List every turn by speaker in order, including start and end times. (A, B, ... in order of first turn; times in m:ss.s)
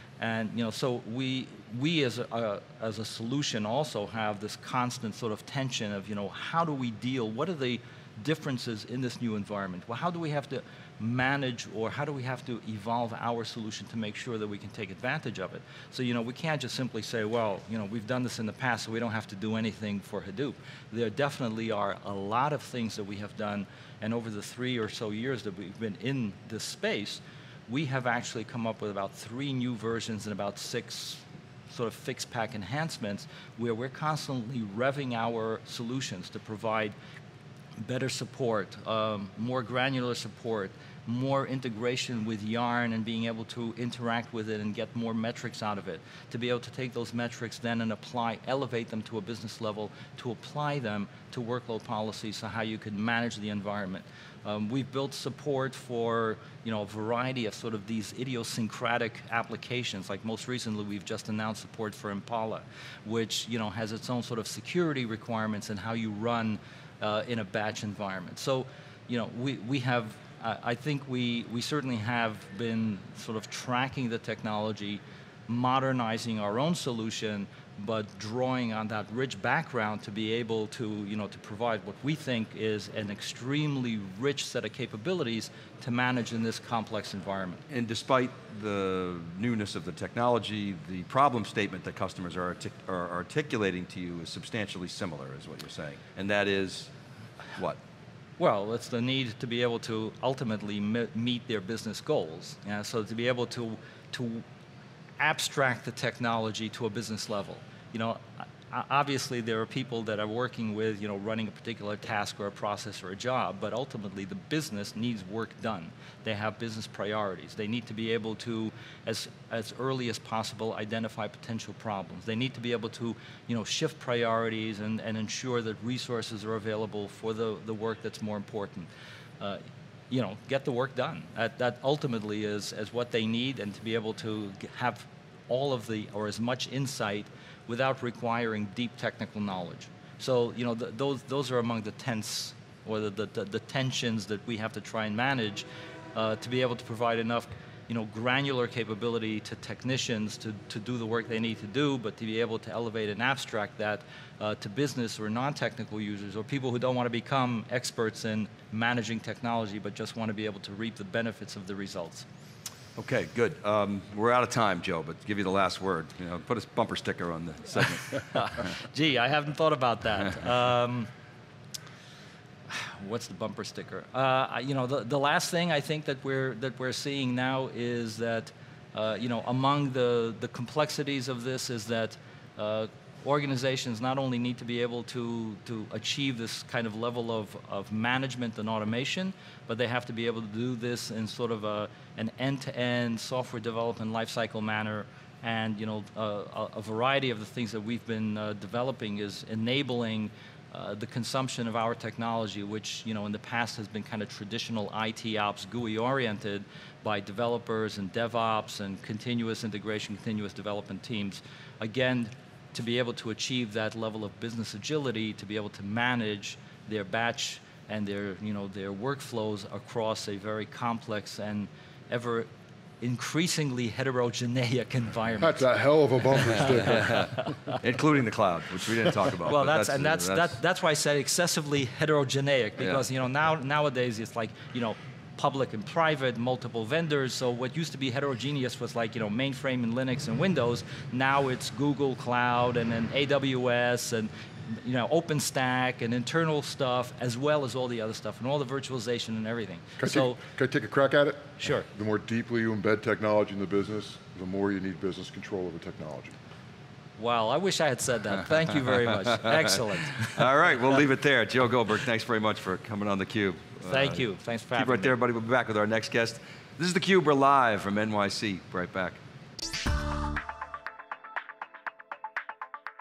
0:00.2-0:36.9 A
0:37.8-1:27.6 A
1:27.7-1:36.9 B
1:38.4-1:44.4 A
1:45.2-2:08.9 A
2:09.4-2:42.2 A
2:43.0-2:48.7 B
2:48.2-2:51.1 A
2:52.7-3:42.5 A
3:43.0-3:45.6 A
3:45.4-3:47.5 C
3:46.5-3:47.5 A
3:46.8-3:50.6 B
3:49.4-4:10.4 A
4:10.0-4:16.4 C
4:11.6-4:11.8 A
4:17.2-4:20.5 A
4:20.3-4:29.2 B
4:23.8-4:25.2 A